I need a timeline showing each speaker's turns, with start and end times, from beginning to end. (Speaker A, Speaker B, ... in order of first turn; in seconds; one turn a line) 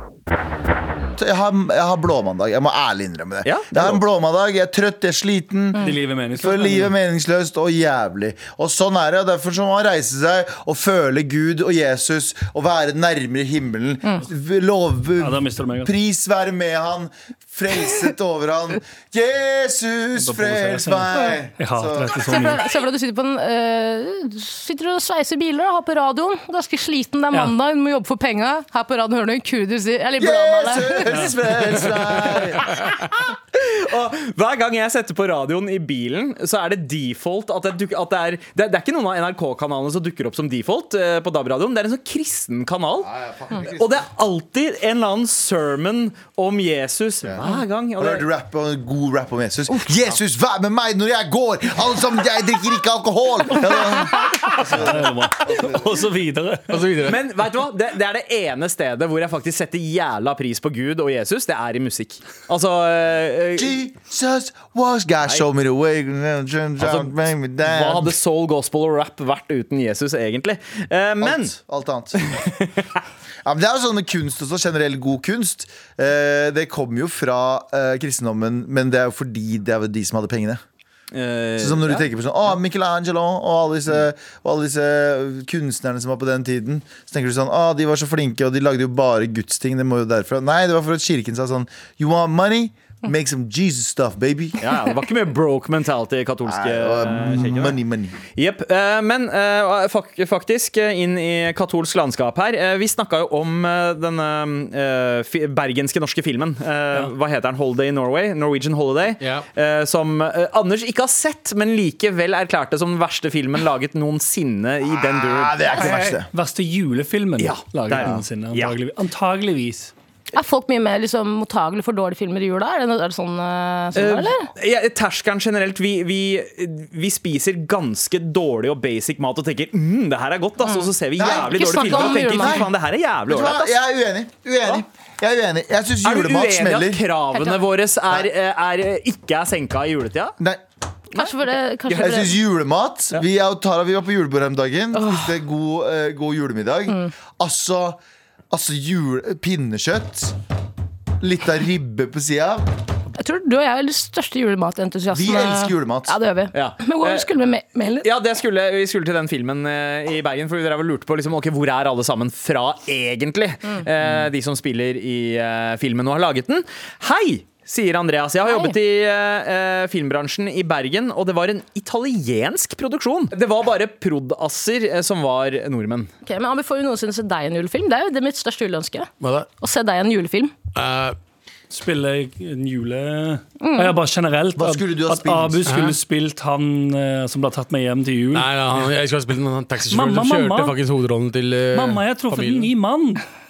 Speaker A: 1.1-22.2
Speaker B: 3.4-4.0
Speaker C: 5.8-6.9
Speaker C: 15.2-15.9
Speaker C: 20.2-22.6
Speaker D: 22.2-31.2
Speaker A: 30.2-32.7
Speaker B: 33.5-48.3
Speaker A: 43.0-44.0
Speaker A: 47.2-56.0
Speaker B: 49.8-50.1
Speaker C: 54.2-56.9
Speaker E: 56.7-57.2
Speaker B: 57.0-63.8
Speaker A: 63.5-68.1
Speaker B: 66.8-67.1
Speaker B: 67.6-71.5
Speaker A: 71.2-72.2
Speaker B: 72.1-72.9
Speaker A: 73.4-80.6
Speaker B: 81.1-82.1
Speaker A: 81.6-94.7
Speaker B: 94.6-97.8
Speaker A: 96.5-98.2
Speaker B: 98.3-116.0
Speaker A: 114.9-116.3
Speaker C: 116.3-119.9
Speaker B: 117.4-118.7
Speaker D: 120.3-124.5
Speaker B: 123.9-133.7
Speaker D: 130.6-132.6
Speaker A: 131.2-132.7
Speaker A: 133.3-137.0
Speaker B: 136.0-140.3
Speaker D: 137.3-137.6
Speaker D: 141.1-142.3
Speaker B: 141.9-142.2
Speaker A: 141.9-148.0
Speaker D: 144.9-145.3
Speaker A: 148.5-150.3
Speaker A: 151.2-152.7
Speaker D: 153.1-158.1
Speaker A: 155.1-156.1
Speaker B: 156.5-157.3
Speaker B: 158.0-176.1
Speaker D: 168.5-168.7
Speaker D: 176.2-180.5
Speaker E: 179.2-179.5
Speaker E: 180.7-181.2
Speaker C: 181.7-188.9
Speaker D: 183.6-183.9
Speaker A: 184.6-185.7
Speaker E: 185.7-186.0
Speaker E: 188.3-192.7
Speaker C: 189.9-190.8
Speaker C: 191.7-193.2